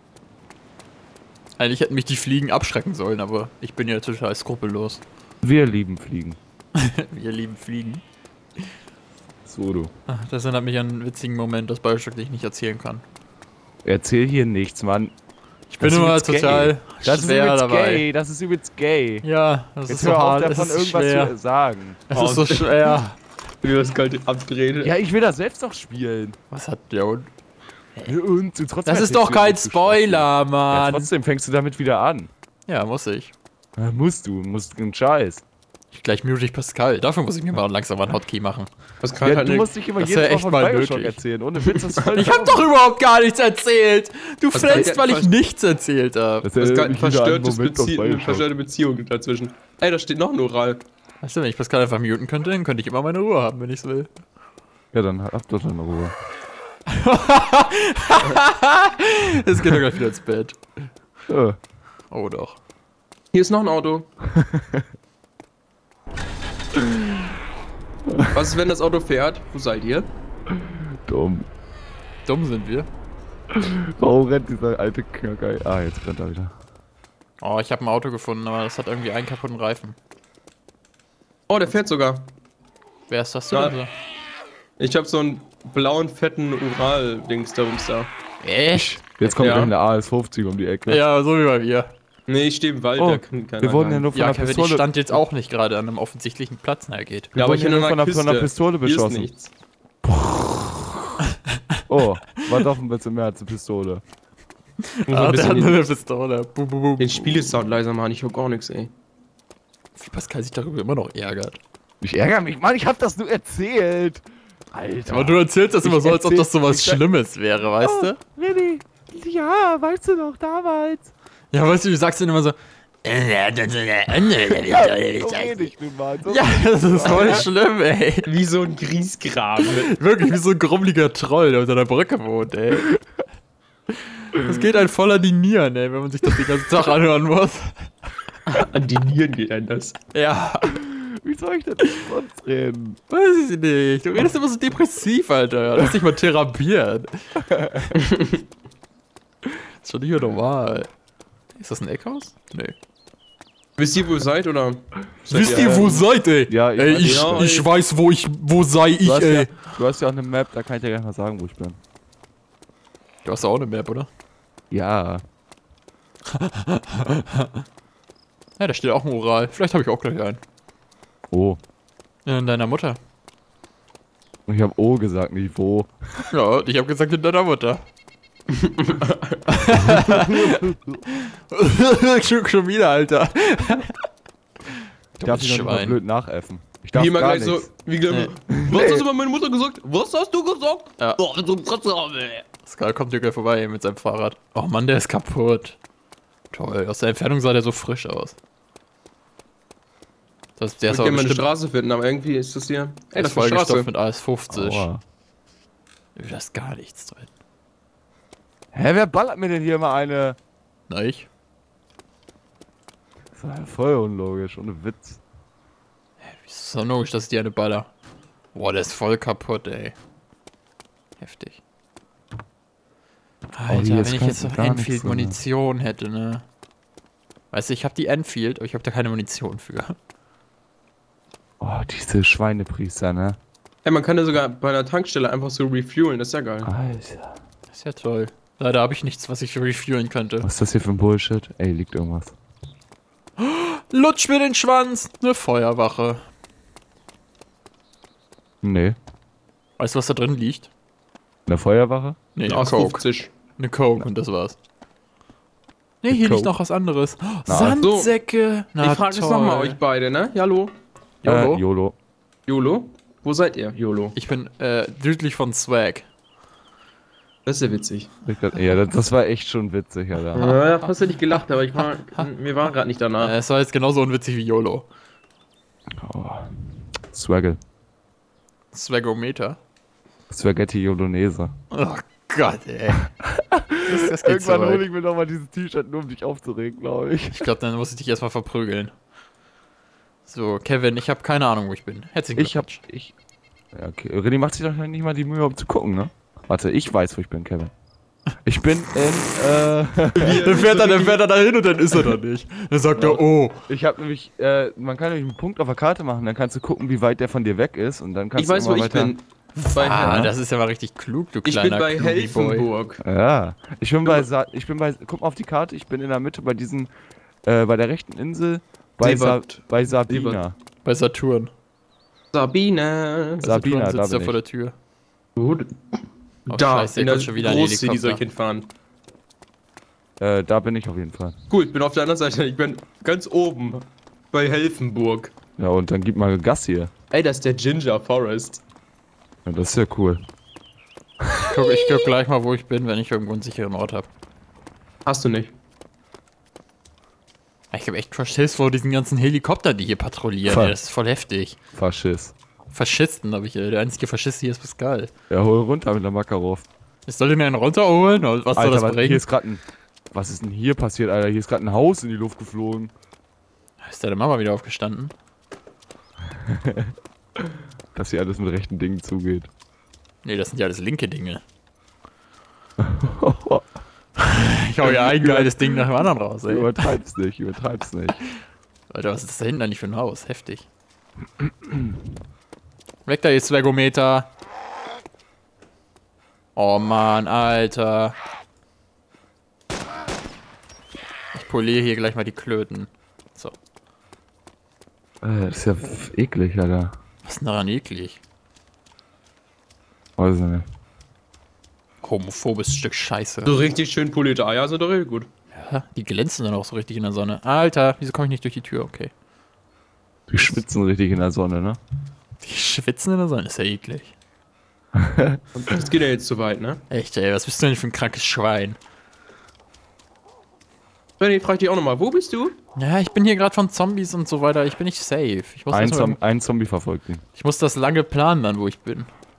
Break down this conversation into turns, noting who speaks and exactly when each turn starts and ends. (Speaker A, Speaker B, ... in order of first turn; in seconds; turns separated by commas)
Speaker A: 1.6-5.0, Speaker B: 5.4-6.4, Speaker A: 6.8-8.0, Speaker B: 9.5-9.9, Speaker A: 10.1-13.0, Speaker B: 13.8-15.1, Speaker A: 15.7-18.1, Speaker B: 15.8-19.3, Speaker A: 19.2-21.3, Speaker B: 19.9-22.0, Speaker A: 22.1-23.2, Speaker C: 22.1-23.0, Speaker C: 23.6-24.9, Speaker B: 24.8-26.4, Speaker A: 26.5-27.3, Speaker B: 28.0-32.3, Speaker A: 28.9-31.1, Speaker A: 32.7-33.3, Speaker B: 33.8-35.4, Speaker A: 35.9-38.7, Speaker C: 39.0-39.7, Speaker B: 39.2-42.7, Speaker A: 40.0-46.5, Speaker C: 44.5-45.4, Speaker B: 46.4-48.5, Speaker C: 46.6-50.8, Speaker A: 51.2-54.1, Speaker B: 54.9-56.1, Speaker A: 56.9-60.6, Speaker B: 61.3-61.6, Speaker A: 62.1-62.6, Speaker C: 63.3-64.1, Speaker B: 64.2-64.9, Speaker B: 66.7-67.2, Speaker B: 68.1-68.4, Speaker C: 68.3-70.1, Speaker B: 70.5-71.5, Speaker A: 72.3-72.9, Speaker B: 73.5-76.5, Speaker A: 77.4-80.0, Speaker C: 81.5-82.3, Speaker A: 83.1-83.9, Speaker C: 84.8-88.1, Speaker A: 88.4-89.7, Speaker B: 88.7-91.0, Speaker C: 89.3-89.7, Speaker A: 90.9-91.9, Speaker C: 92.3-94.1, Speaker B: 93.0-95.2, Speaker A: 94.1-97.3, Speaker B: 97.3-99.3, Speaker C: 97.3-99.5, Speaker B: 100.0-101.2, Speaker B: 101.9-104.0, Speaker A: 105.0-107.6, Speaker C: 105.1-105.8, Speaker C: 107.0-108.9, Speaker A: 110.0-111.6, Speaker B: 112.0-117.0, Speaker A: 115.1-118.2, Speaker B: 117.8-121.1, Speaker A: 121.5-125.7, Speaker B: 124.2-127.5, Speaker A: 126.3-128.3, Speaker C: 128.3-129.9, Speaker A: 129.6-132.9, Speaker A: 134.2-137.9, Speaker C: 138.5-139.9, Speaker A: 140.1-140.8, Speaker B: 140.7-143.0, Speaker A: 143.1-147.9, Speaker B: 147.5-147.8, Speaker C: 147.9-148.4, Speaker A: 149.5-150.9, Speaker A: 151.6-152.8, Speaker C: 153.8-156.0, Speaker A: 155.3-159.7, Speaker B: 155.3-157.7, Speaker C: 157.0-157.7, Speaker B: 159.0-161.8, Speaker A: 163.2-164.1, Speaker B: 164.7-165.2, Speaker A: 166.3-167.5, Speaker A: 168.6-170.4, Speaker B: 171.3-171.6, Speaker A: 172.3-173.0, Speaker B: 174.5-176.3, Speaker A: 176.3-177.8, Speaker C: 178.5-179.7, Speaker A: 179.5-183.9, Speaker B: 179.8-181.0, Speaker A: 185.2-186.0, Speaker B: 185.2-187.7, Speaker C: 186.9-192.4, Speaker B: 188.5-189.1, Speaker A: 192.6-195.8, Speaker A: 196.5-198.4, Speaker A: 200.6-201.5, Speaker C: 200.9-203.9, Speaker A: 203.2-204.9, Speaker B: 204.5-205.0, Speaker A: 206.2-207.3, Speaker B: 208.7-210.4, Speaker A: 210.9-211.3, Speaker B: 213.3-215.2, Speaker A: 216.2-217.9, Speaker A: 218.5-220.0, Speaker A: 221.2-221.6, Speaker A: 223.5-226.4, Speaker B: 223.7-225.4, Speaker A: 227.5-229.9, Speaker B: 231.6-233.4, Speaker C: 233.8-236.7, Speaker B: 236.7-237.4, Speaker A: 237.7-240.5, Speaker B: 240.4-242.3, Speaker A: 243.4-246.2, Speaker B: 248.6-249.0, Speaker A: 249.8-250.7, Speaker B: 251.5-252.2, Speaker A: 252.4-253.0, Speaker C: 252.4-253.3, Speaker A: 253.6-254.6, Speaker A: 256.0-259.8, Speaker B: 256.1-256.5, Speaker B: 257.5-257.8, Speaker C: 257.8-258.1, Speaker C: 258.8-260.7, Speaker A: 261.2-261.6, Speaker B: 261.2-261.9, Speaker C: 262.5-264.1, Speaker A: 264.1-266.1, Speaker C: 267.5-268.1, Speaker B: 268.3-270.5, Speaker C: 270.4-273.4, Speaker A: 270.4-270.6, Speaker A: 271.8-272.2, Speaker A: 273.2-274.9, Speaker B: 276.0-277.6, Speaker A: 278.7-279.6, Speaker B: 280.3-281.5, Speaker A: 281.7-283.1, Speaker B: 283.2-287.5, Speaker A: 283.8-284.9, Speaker A: 287.3-288.9, Speaker A: 290.3-292.8, Speaker B: 292.4-293.1, Speaker B: 293.8-297.7, Speaker B: 298.4-300.5, Speaker C: 300.2-301.2, Speaker A: 300.3-303.6, Speaker B: 303.0-309.1, Speaker C: 308.4-310.3, Speaker A: 309.6-312.7, Speaker B: 309.9-310.3, Speaker C: 311.4-313.0, Speaker B: 313.0-316.9, Speaker B: 317.5-320.6, Speaker C: 319.0-320.4, Speaker A: 320.8-321.5, Speaker C: 322.3-323.5, Speaker B: 323.4-324.4, Speaker A: 323.4-324.8, Speaker C: 325.4-325.7, Speaker C: 326.5-328.7, Speaker A: 326.5-328.2, Speaker B: 330.2-331.4, Speaker C: 331.5-335.3, Speaker B: 335.6-336.9, Speaker C: 337.1-338.6, Speaker B: 339.4-340.2, Speaker A: 341.5-344.1, Speaker C: 345.1-345.5, Speaker A: 347.7-351.6, Speaker B: 350.4-350.8, Speaker B: 351.8-352.4, Speaker A: 352.7-355.1, Speaker B: 355.3-356.7, Speaker A: 357.1-359.2, Speaker B: 358.5-362.9, Speaker A: 363.8-365.1, Speaker B: 366.4-369.5, Speaker A: 370.2-371.4, Speaker B: 372.8-373.7, Speaker A: 374.2-376.9, Speaker B: 374.8-378.2, Speaker A: 378.9-380.7, Speaker B: 381.4-381.9, Speaker A: 383.1-384.3, Speaker A: 386.6-388.2, Speaker A: 391.3-393.6, Speaker B: 395.2-396.9, Speaker A: 397.2-398.2, Speaker B: 400.2-400.7, Speaker A: 402.0-403.6, Speaker C: 403.4-405.3, Speaker A: 405.5-409.1, Speaker B: 410.3-411.8, Speaker A: 412.4-414.1, Speaker B: 414.9-415.4, Speaker C: 415.6-416.8, Speaker A: 416.9-418.8, Speaker C: 421.2-422.6, Speaker A: 422.8-426.2, Speaker B: 425.7-427.2, Speaker A: 427.4-429.1